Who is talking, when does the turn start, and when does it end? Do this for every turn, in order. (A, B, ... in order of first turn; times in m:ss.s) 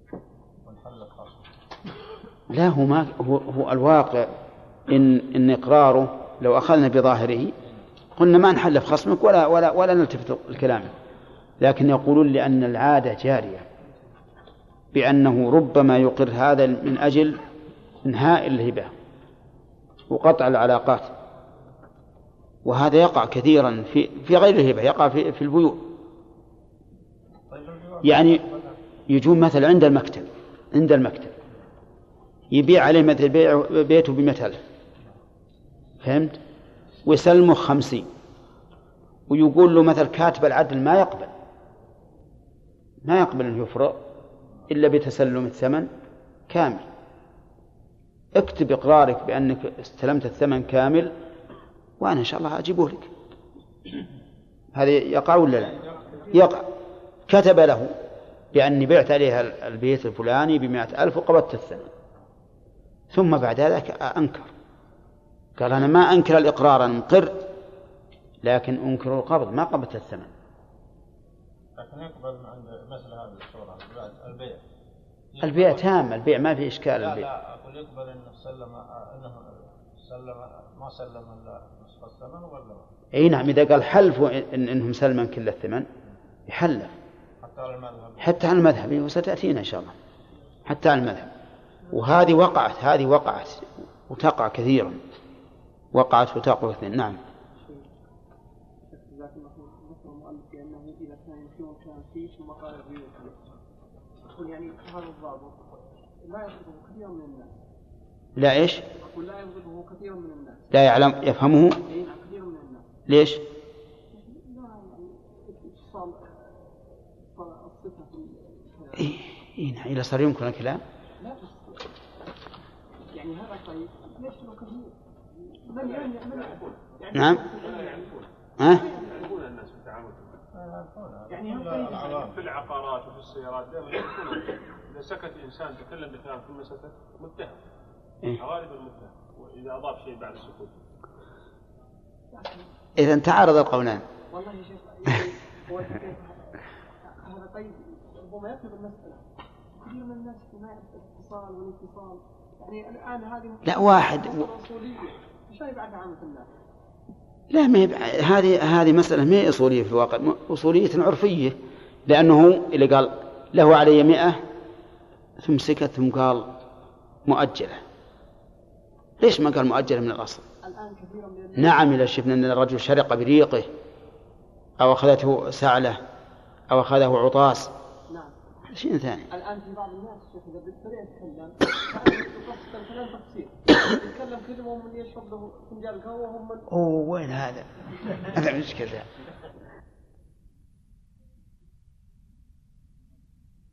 0:00.6-0:01.5 A
0:02.5-0:04.3 B
0:04.9-0:07.5 B
0:08.2-0:10.9 B
0:11.6-0:13.6 B
0:14.9-0:17.4 B
0:18.0-0:18.9 B
0:20.1-0:21.1 B
0:22.6-0:25.8 B
0:27.5-0:28.8 A
0:28.0-0:28.4 B
0:29.1-0:31.3 B
0:32.5-0:34.6 B
0:36.0-0:36.4 B
0:37.1-0:38.1 B
0:39.3-0:41.3 B
0:43.0-0:44.0 B
0:44.7-0:45.9 B
0:46.5-0:46.8 B
0:48.4-0:51.1 B
0:52.0-0:53.1 B
0:54.7-0:56.7 B
0:57.3-0:57.9 B
0:58.5-1:01.9 B
1:03.1-1:04.5 B
1:05.6-1:07.4 B
1:08.4-1:10.3 B
1:11.8-1:14.6 A
1:15.3-1:15.9 A
1:15.4-1:17.3 B
1:17.0-1:22.9 A
1:23.1-1:25.9 B
1:26.5-1:26.9 B
1:27.4-1:28.4 A
1:28.2-1:30.0 B
1:30.7-1:31.3 B
1:31.9-1:35.0 B
1:35.9-1:37.2 B
1:37.6-1:37.9 C
1:38.9-1:43.4 C
1:44.3-1:45.6 C
1:46.2-1:47.5 C
1:48.4-1:48.8 B
1:49.0-1:50.7 C
1:50.7-1:51.8 B
1:51.8-1:52.9 C
1:53.1-1:53.4 B
1:54.1-1:59.1 C
1:59.0-2:00.8 B
2:01.2-2:01.8 C
2:03.1-2:09.2 C
2:05.9-2:06.8 D
2:07.1-2:07.4 B
2:07.5-2:08.3 D
2:08.6-2:08.8 B
2:08.9-2:10.4 D
2:10.5-2:12.4 A
2:11.3-2:12.2 C
2:12.1-2:17.6 D
2:18.4-2:20.8 D
2:22.3-2:22.7 C
2:23.0-2:24.0 B
2:24.3-2:29.3 C
2:29.8-2:36.5 C
2:33.7-2:34.4 B
2:37.5-2:44.4 B
2:45.4-2:46.5 B
2:47.3-2:47.8 B
2:49.2-2:50.4 B
2:50.6-2:51.8 C
2:51.6-2:53.7 B
2:54.8-2:56.0 B
2:56.7-2:57.7 B
2:58.7-2:59.3 B
2:59.3-3:06.7 C
3:06.7-3:09.1 B